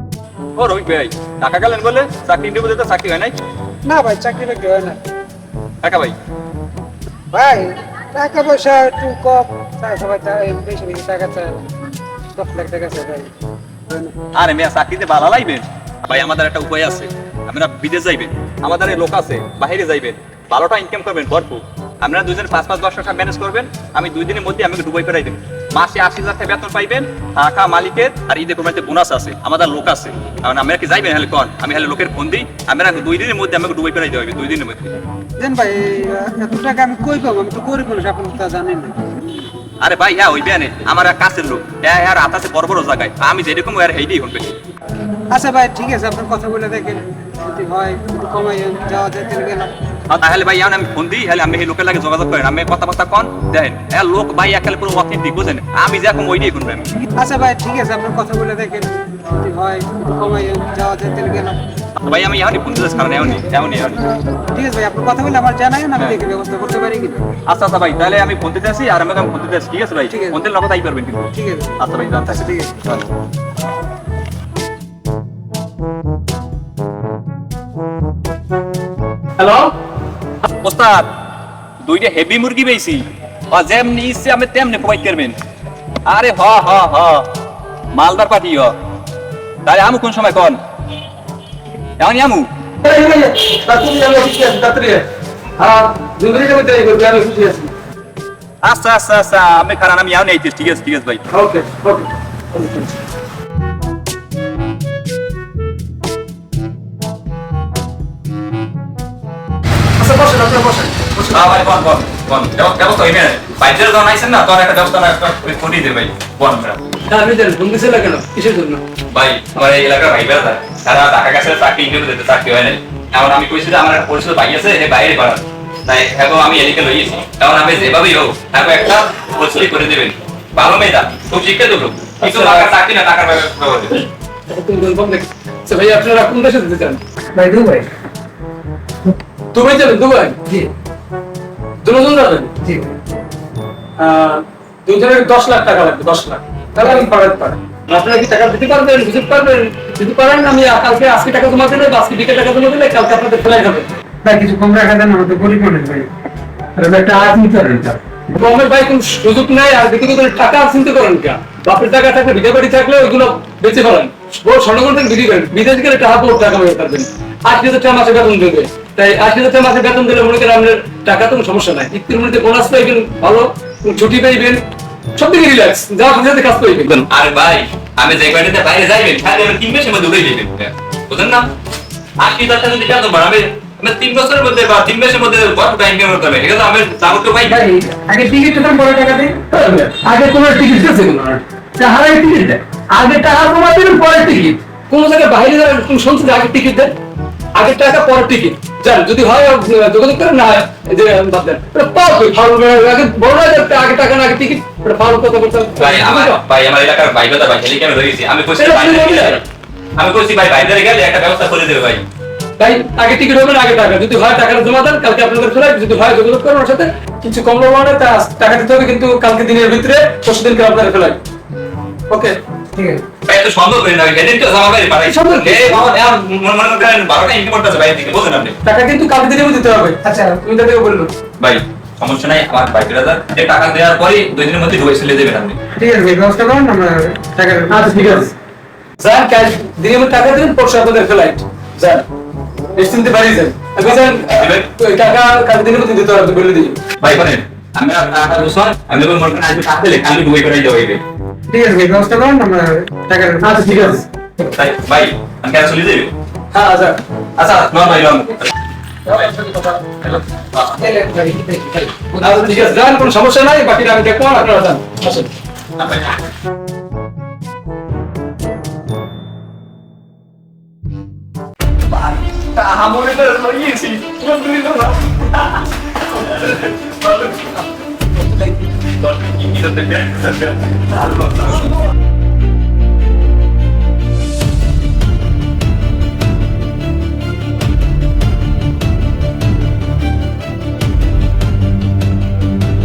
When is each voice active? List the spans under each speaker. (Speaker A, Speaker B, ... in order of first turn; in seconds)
Speaker A: 0.5-3.4, 5.8-6.2, 14.3-35.0, 39.8-44.6, 50.1-56.9, 62.0-64.0, 67.4-73.1, 80.6-81.1, 81.8-85.4, 86.0-87.3, 87.9-88.7, 89.6-90.6, 92.0-92.5, 98.6-101.2, 111.3-116.8, 119.1-134.0, 176.9-181.5, 182.2-187.6, 205.8-209.4, 209.9-212.0, 223.2-228.6, 231.4-235.6, 243.8-244.7, 247.0-251.0, 254.5-256.1, 257.4-258.5, 259.9-260.8, 265.8-266.1, 271.9-277.6, 278.2-281.8
Speaker B: 3.8-5.0, 7.3-11.7, 12.3-13.3, 13.9-14.1, 35.4-39.1, 45.3-49.7, 57.1-61.6, 64.4-67.3, 70.1-70.4, 71.3-72.9, 137.3-137.9, 142.6-142.9, 146.8-147.1, 154.2-156.1, 156.8-158.0, 187.5-189.4, 222.7-223.0, 230.0-230.4, 235.8-238.3, 251.5-253.5, 260.8-262.3
Speaker C: 79.4-79.7, 92.8-95.0, 95.6-97.7, 101.3-102.9, 110.0-111.7, 117.1-118.8, 132.2-132.7, 134.5-137.0, 139.5-140.4, 141.8-142.5, 144.0-153.9, 158.3-174.6, 175.1-177.1, 189.5-196.9, 197.5-206.4, 208.5-209.4, 212.6-221.2, 222.1-222.4, 225.0-226.0, 228.6-231.1, 237.7-238.3, 239.0-242.1, 242.7-246.8, 253.4-254.1, 256.5-257.0, 259.1-259.8, 261.8-265.3